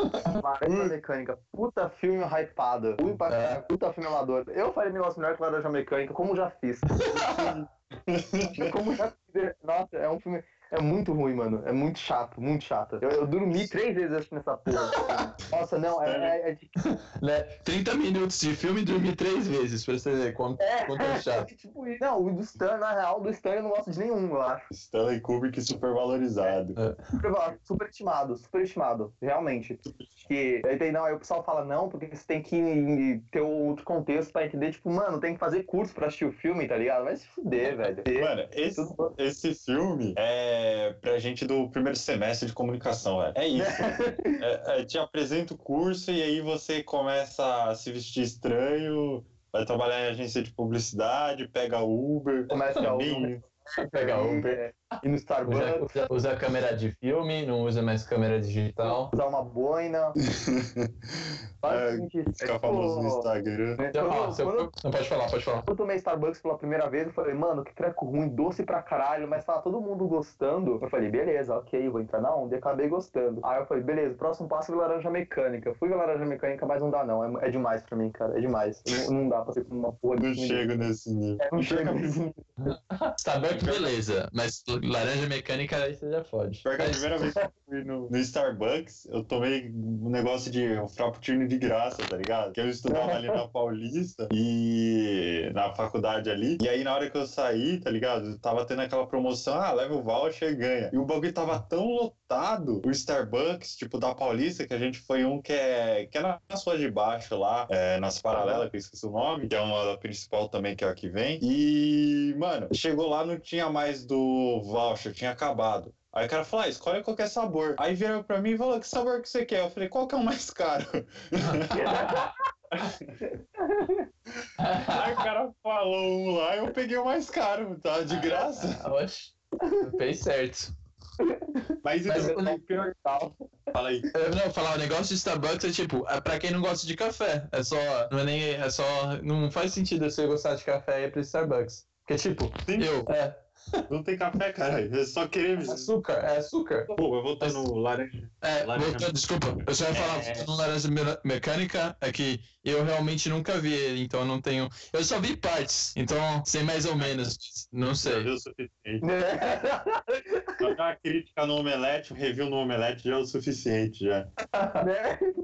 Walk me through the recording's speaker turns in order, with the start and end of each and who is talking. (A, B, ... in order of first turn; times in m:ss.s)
0:00.3-0:07.4 A
0:03.2-0:03.6 B
0:06.9-0:07.5 B
0:07.3-0:08.7 C
0:08.5-0:16.8 A
0:14.7-0:15.1 B
0:16.0-0:16.4 C
0:16.8-0:21.5 B
0:20.6-0:24.6 A
0:24.7-0:26.8 C
0:27.2-0:39.1 A
0:29.9-0:30.3 C
0:38.0-0:53.4 C
0:43.5-0:44.4 A
0:52.5-0:55.9 A
0:53.8-0:54.6 B
0:55.4-0:59.1 B
0:58.8-1:00.2 A
1:00.3-1:00.9 C
1:01.6-1:04.7 A
1:01.6-1:03.8 C
1:03.9-1:05.7 B
1:05.7-1:20.9 A
1:20.2-1:22.2 C
1:21.4-1:22.5 A
1:22.6-1:27.3 B
1:23.5-1:23.9 C
1:26.6-2:01.9 C
1:32.9-1:33.4 A
1:48.3-1:48.7 A
2:01.4-2:02.3 B
2:01.8-2:02.3 A
2:02.7-2:03.1 C
2:03.2-2:04.0 A
2:04.6-2:05.0 B
2:04.8-2:08.8 C
2:08.1-2:10.7 B
2:11.2-2:13.3 A
2:11.8-2:13.0 C
2:12.1-2:12.5 B
2:13.7-2:14.0 C
2:14.1-2:23.3 B
2:22.6-2:23.0 C
2:23.9-2:25.9 C
2:25.6-2:27.6 B
2:26.9-2:29.1 C
2:28.4-2:38.3 B
2:29.9-2:30.5 C
2:37.0-2:37.3 C
2:38.0-2:39.0 C
2:39.0-2:40.2 A
2:40.6-2:44.3 C
2:44.5-2:44.8 B
2:44.8-2:45.2 A